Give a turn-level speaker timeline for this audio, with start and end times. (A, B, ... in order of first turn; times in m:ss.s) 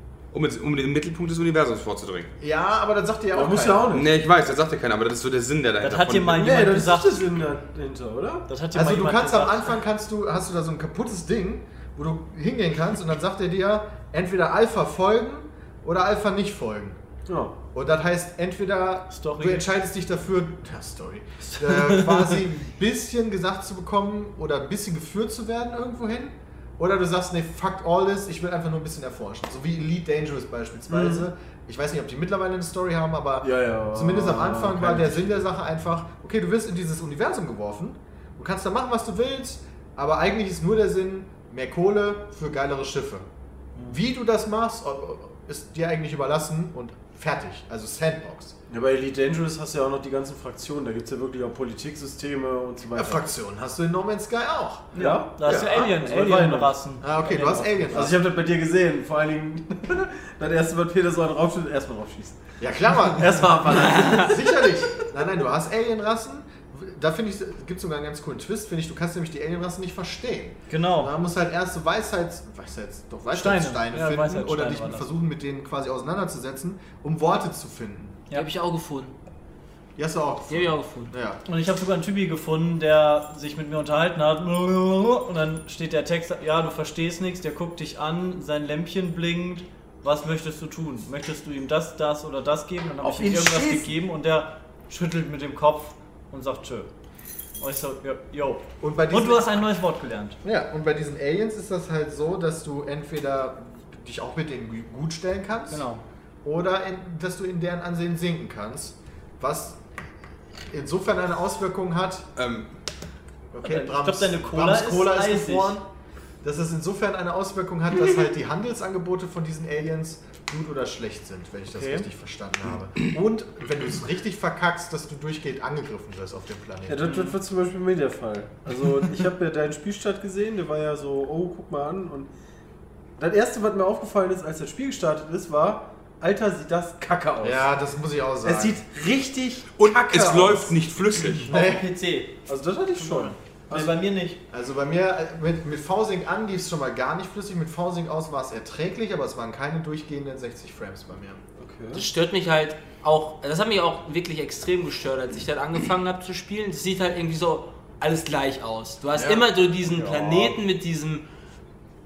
0:00.3-0:02.3 A
0:02.4-0:03.9 B
0:03.3-0:04.1 C
0:03.9-0:06.5 A
0:05.8-0:07.3 D
0:06.4-0:08.5 C
0:08.5-0:09.7 D
0:08.7-0:17.0 B
0:17.3-0:17.5 C
0:17.7-0:43.3 B
0:19.1-0:19.7 D
0:21.6-0:22.3 D
0:30.9-0:31.2 C
0:33.4-0:35.4 C
0:43.9-0:48.6 B
0:48.7-0:53.2 C
0:52.9-0:54.9 B
0:54.9-0:58.0 D
0:55.0-0:56.8 C
0:55.4-0:55.7 B
0:57.0-0:58.2 B
0:57.9-1:02.4 C
1:02.6-1:18.2 B
1:03.1-1:04.6 C
1:10.7-1:11.1 D
1:13.3-1:15.1 D
1:18.3-1:19.1 E
1:20.0-1:21.4 B
1:20.5-1:21.1 E
1:21.4-1:36.9 D
1:33.0-1:33.9 C
1:37.6-1:40.4 D
1:38.8-1:39.6 B
1:40.4-1:45.9 B
1:45.7-1:46.0 D
1:46.4-1:49.8 B
1:50.7-1:52.3 B
1:52.4-1:52.7 A
1:53.5-1:55.8 B
1:53.6-1:55.8 D
1:56.4-2:07.2 B
2:01.7-2:02.1 D
2:06.9-2:12.3 C
2:07.0-2:07.4 D
2:13.2-2:17.7 C
2:17.4-2:18.8 B
2:18.4-2:20.8 C
2:19.8-2:21.5 A
2:21.5-2:21.9 B
2:21.5-2:22.4 D
2:22.5-2:24.0 C
2:23.0-2:24.4 D
2:24.5-2:31.4 B
2:31.6-2:32.1 C
2:31.9-2:41.2 E
2:39.2-2:39.4 B